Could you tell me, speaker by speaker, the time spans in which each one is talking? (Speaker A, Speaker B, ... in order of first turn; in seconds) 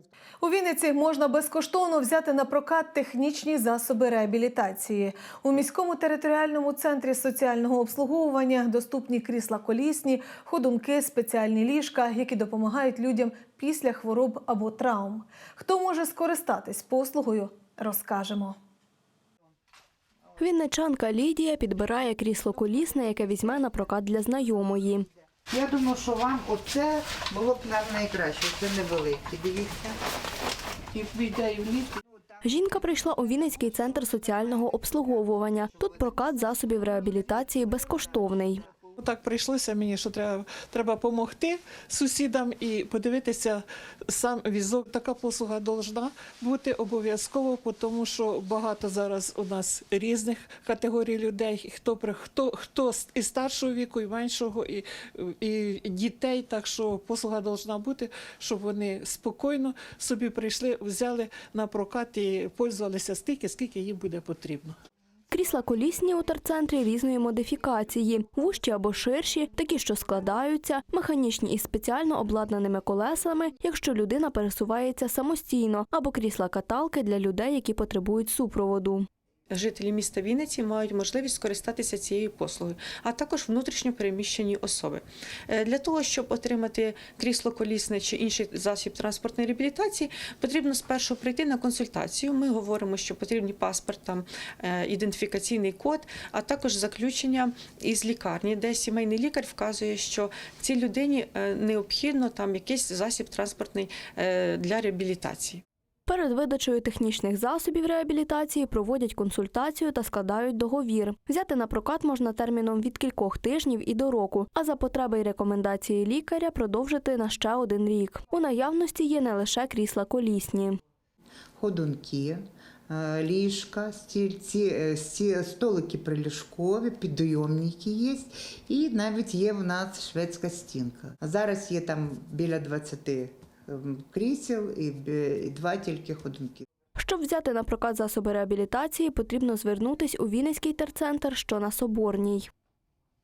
Speaker A: 0.4-18.6
Speaker B: 20.4-25.1, 32.4-38.6, 65.3-79.1, 106.1-120.8, 137.0-142.5
Speaker C: 25.5-30.0, 30.9-31.6, 121.6-136.6
Speaker D: 39.0-64.8
Speaker E: 79.5-105.6